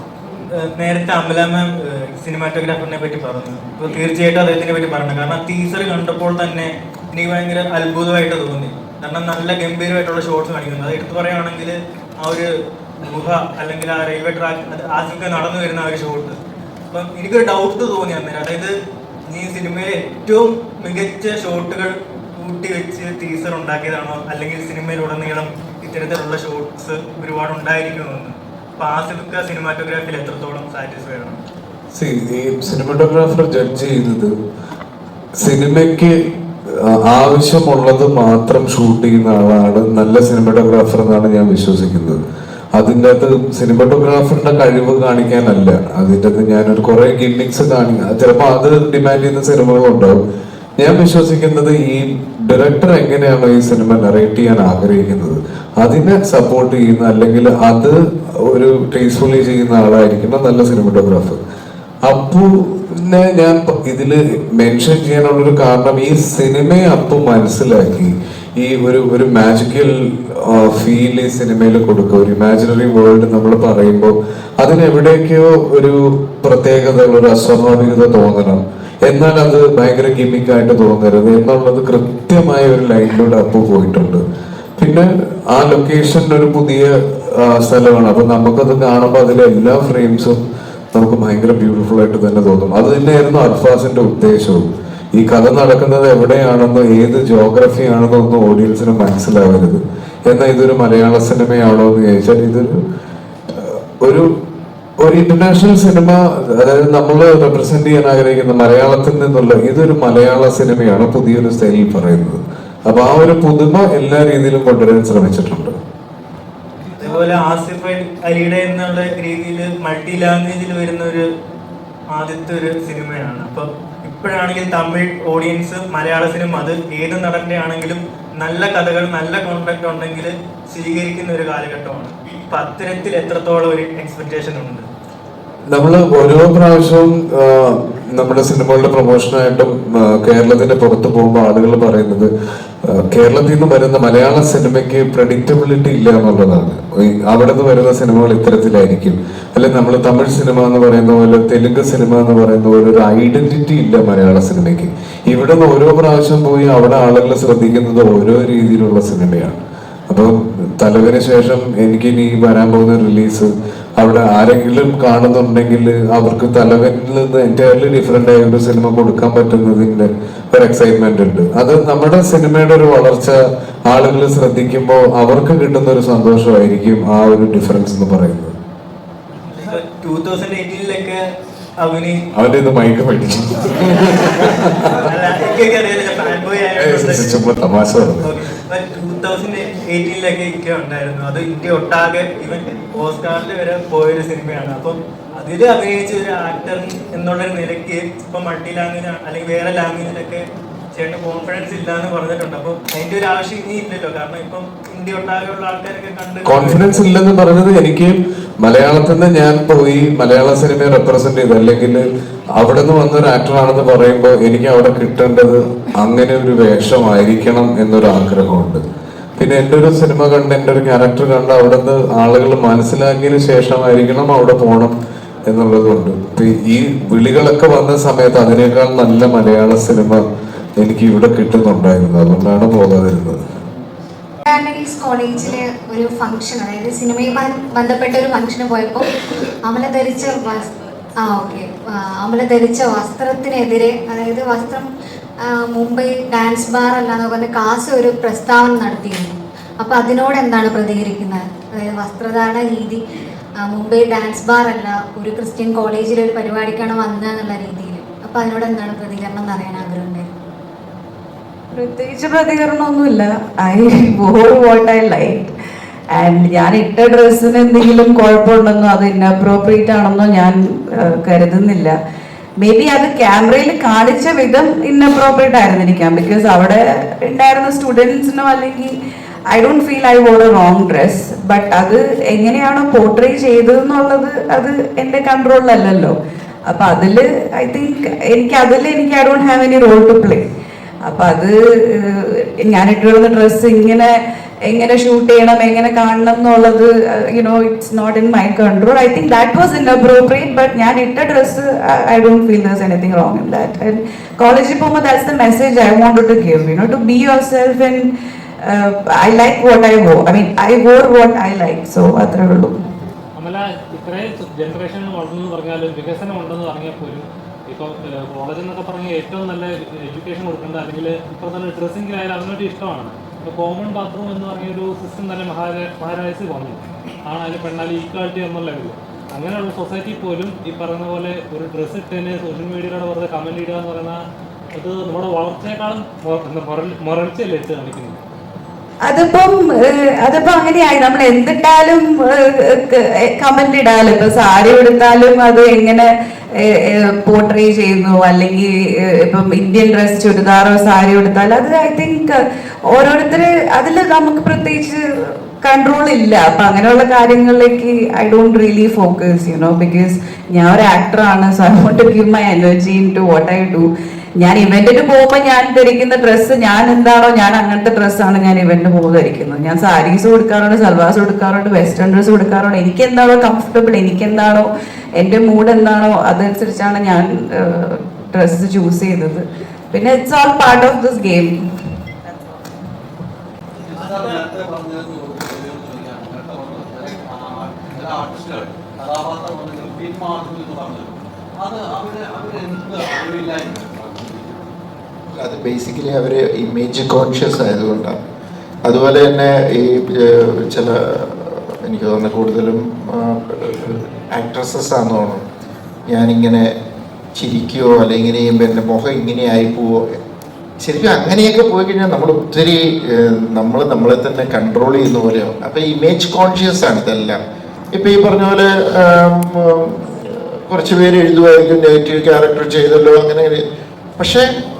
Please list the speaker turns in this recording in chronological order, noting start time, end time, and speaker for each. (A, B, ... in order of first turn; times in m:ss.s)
0:00.6-0:12.5 A
0:13.0-0:16.4 A
0:16.9-0:18.7 A
0:19.3-0:31.4 A
0:31.9-0:34.3 B
0:35.4-0:36.2 B
0:36.7-0:42.2 B
0:42.8-0:50.2 B
0:50.8-1:01.4 B
1:02.1-1:24.2 B
1:24.8-1:30.4 B
1:30.9-1:42.7 B
1:43.5-1:44.3 B
1:45.0-1:55.8 B
1:56.8-1:57.5 C
1:57.0-2:01.2 A
2:02.1-2:14.8 A
2:15.7-2:22.3 B
2:22.9-2:39.6 B
2:40.1-2:58.5 B
2:59.5-3:01.2 A
3:01.8-3:02.2 A
3:02.3-3:05.0 B
3:05.0-3:07.5 A
3:06.8-3:08.4 B
3:08.2-3:20.4 A
3:21.0-3:26.8 A
3:26.4-3:32.1 B
3:32.6-3:38.8 B
3:39.4-3:44.9 B
3:45.5-3:50.2 B
3:50.8-3:53.4 B
3:54.5-3:59.1 D
3:59.6-4:00.7 D
4:01.2-4:04.9 D
4:05.4-4:13.0 D
4:13.6-4:20.3 D
4:21.7-4:25.5 E
4:26.2-4:31.9 E
4:32.6-4:38.9 E
4:39.5-4:46.1 E
4:46.7-4:50.4 E
4:51.0-4:54.1 E
4:54.7-5:08.0 E
5:08.6-5:12.8 E
5:13.4-5:34.2 F
5:34.8-5:38.2 F
5:39.0-5:46.1 E
5:46.9-5:52.4 E
5:52.9-6:03.9 E
6:04.4-6:14.7 E
6:15.2-6:21.6 E
6:23.8-6:34.7 C
6:35.4-6:38.2 G
6:38.8-6:45.4 G
6:46.1-6:46.7 G
6:47.4-6:50.0 G
6:50.8-6:57.4 G
6:58.0-7:03.6 G
7:04.2-7:04.5 G